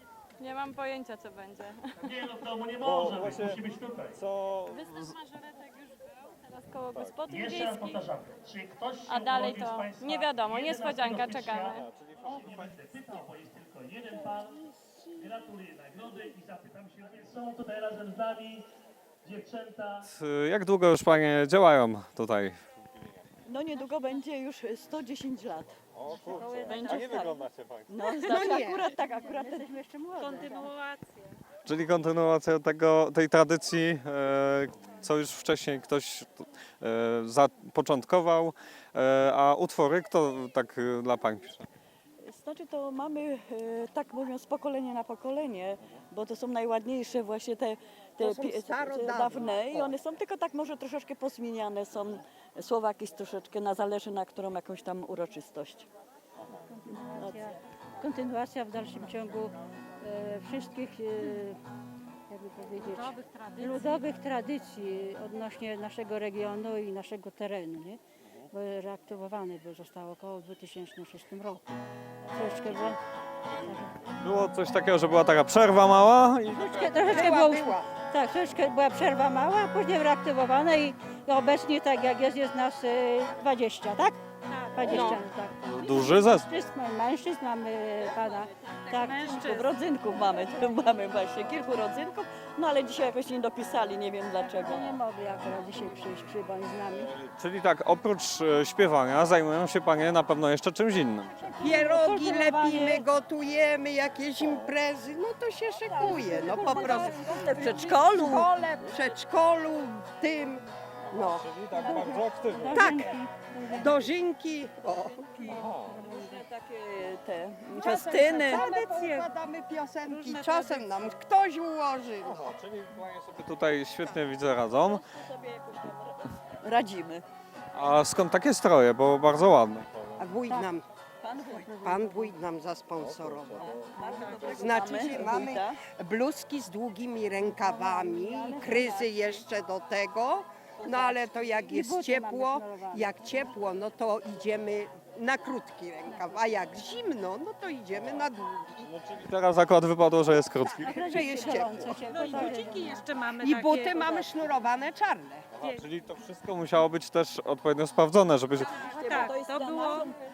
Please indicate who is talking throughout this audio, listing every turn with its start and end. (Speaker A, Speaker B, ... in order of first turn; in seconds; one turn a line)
Speaker A: 0.4-1.8
Speaker B: 2.0-4.2
Speaker C: 2.8-3.6
Speaker C: 4.1-5.1
Speaker A: 4.7-8.0
Speaker C: 6.9-7.2
Speaker B: 7.3-14.6
Speaker A: 9.1-11.8
Speaker C: 11.6-12.8
Speaker B: 15.2-18.6
Speaker B: 19.2-20.1
Speaker C: 20.1-23.2
Speaker D: 23.4-25.8
Speaker C: 25.9-27.9
Speaker E: 26.1-27.0
Speaker D: 26.7-27.3
Speaker D: 27.9-30.6
Speaker F: 28.3-28.9
Speaker E: 29.5-30.6
Speaker C: 31.7-41.7
Speaker D: 42.2-55.9
Speaker F: 48.2-50.0
Speaker E: 56.7-61.6
Speaker E: 62.3-68.0
Speaker E: 68.5-71.6
Speaker C: 72.3-72.9
Speaker E: 72.3-73.0
Speaker C: 73.5-77.3
Speaker E: 76.5-84.2
Speaker F: 77.1-77.9
Speaker E: 84.7-89.4
Speaker F: 84.8-85.2
Speaker A: 84.9-85.1
Speaker C: 85.7-86.5
Speaker A: 88.9-89.7
Speaker D: 89.1-95.0
Speaker E: 94.4-97.1
Speaker C: 96.9-101.3
Speaker E: 101.4-103.1
Speaker F: 101.6-111.5
Speaker C: 104.4-104.7
Speaker D: 106.0-109.1
Speaker E: 106.3-107.3
Speaker C: 111.1-113.0
Speaker E: 111.8-113.9
Speaker F: 112.8-113.1
Speaker F: 113.7-115.6
Speaker E: 115.5-116.4
Speaker C: 115.5-116.0
Speaker D: 116.0-118.7
Speaker F: 117.7-122.5
Speaker C: 122.2-125.0
Speaker D: 124.7-127.2
Speaker C: 127.7-130.2
Speaker F: 130.2-130.8
Speaker D: 131.2-132.1
Speaker F: 131.8-148.9
Speaker C: 133.0-133.8
Speaker D: 133.6-135.8
Speaker E: 137.6-139.4
Speaker E: 140.8-143.5
Speaker C: 147.9-151.3
Speaker F: 150.6-152.7
Speaker E: 150.8-153.0
Speaker F: 153.4-155.5
Speaker C: 155.5-158.9
Speaker E: 158.7-160.1
Speaker F: 159.0-159.3